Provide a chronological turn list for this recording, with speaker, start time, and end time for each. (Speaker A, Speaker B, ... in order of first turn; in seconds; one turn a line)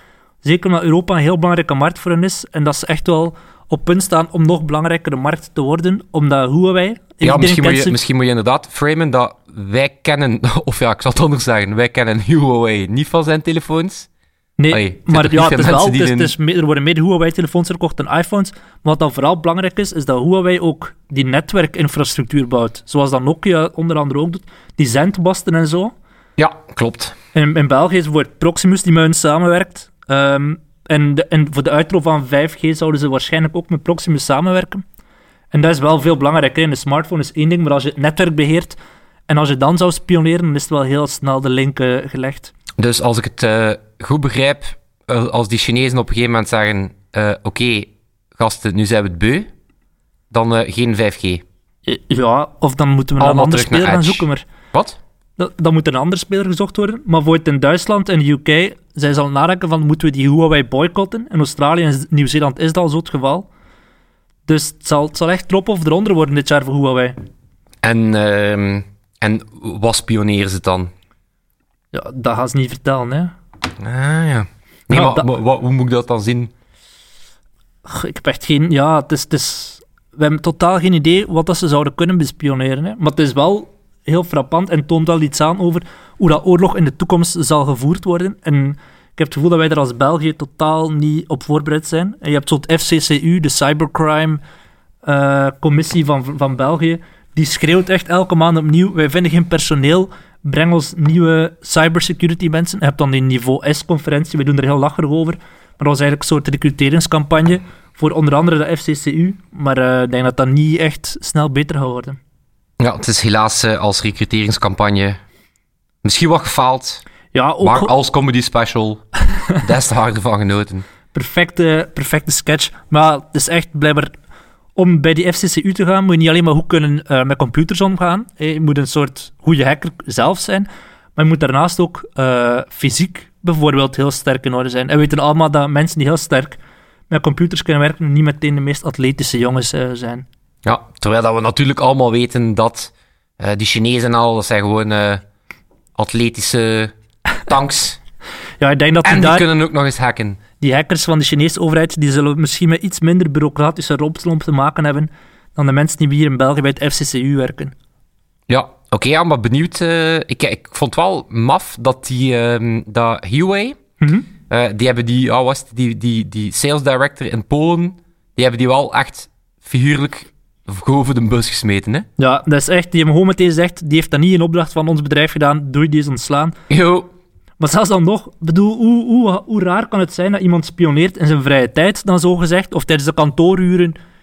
Speaker A: 0.4-8.0
Speaker B: 7.2-14.1
Speaker A: 14.6-25.9
Speaker B: 14.7-16.3
Speaker B: 26.4-27.1
Speaker A: 27.3-34.8
Speaker A: 35.5-38.8
Speaker A: 39.3-42.5
Speaker B: 42.8-49.5
Speaker B: 50.3-51.4
Speaker A: 51.9-54.5
Speaker B: 53.2-55.0
Speaker A: 55.4-63.5
Speaker A: 64.5-67.2
Speaker B: 67.8-70.9
Speaker A: 71.9-73.3
Speaker B: 73.8-76.5
Speaker A: 74.9-75.3
Speaker A: 77.8-94.4
Speaker A: 95.0-112.2
Speaker B: 112.8-115.2
Speaker B: 116.0-117.0
Speaker A: 117.3-117.9
Speaker B: 117.6-119.0
Speaker B: 119.6-120.9
Speaker A: 121.1-124.1
Speaker A: 124.8-136.6
Speaker A: 137.1-140.2
Speaker B: 140.6-145.2
Speaker B: 146.0-146.9
Speaker B: 147.4-148.0
Speaker A: 148.6-149.5
Speaker B: 149.0-150.4
Speaker A: 150.6-157.7
Speaker B: 158.5-163.8
Speaker A: 164.0-164.3
Speaker B: 164.5-172.1
Speaker A: 172.2-176.6
Speaker B: 176.7-177.1
Speaker A: 177.6-184.0